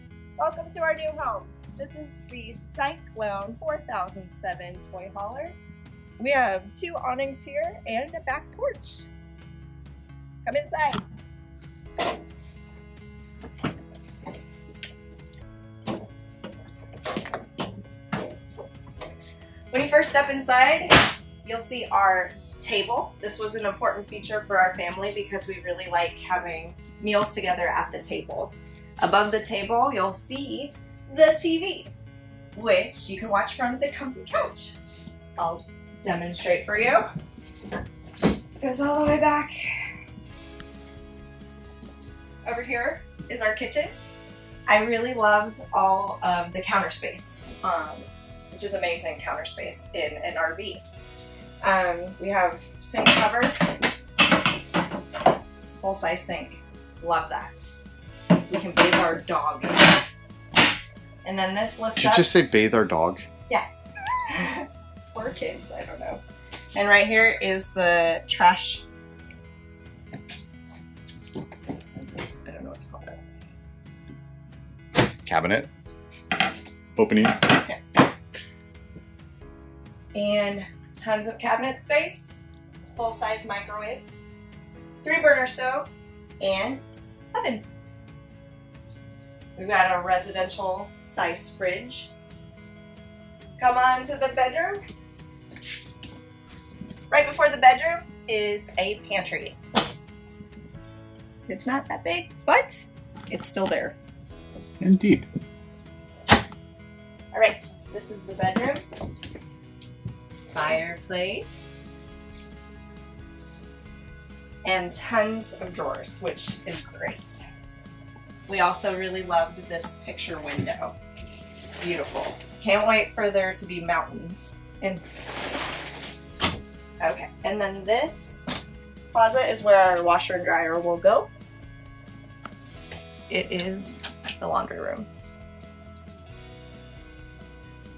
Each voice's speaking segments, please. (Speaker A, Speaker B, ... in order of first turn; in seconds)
Speaker A: 0.4-5.6, 6.2-9.1, 10.4-11.0, 19.7-31.9, 32.5-34.8, 35.4-37.1, 38.6-39.5, 42.5-43.9, 44.7-50.8, 51.6-53.7, 55.7-57.7, 58.5-60.1, 61.2-62.3, 63.5-66.2, 66.8-68.9, 72.5-73.2, 80.1-82.4, 82.9-84.0, 85.0-85.9, 86.4-87.7, 89.6-92.1, 93.6-94.8, 97.1-99.6, 101.5-104.0, 107.3-108.8, 110.5-111.6, 114.6-117.4, 118.5-121.0, 121.7-125.0, 127.0-128.4, 129.1-131.3, 133.3-135.1
Speaker B: 62.0-63.2, 75.2-75.7, 77.0-77.6, 104.8-105.3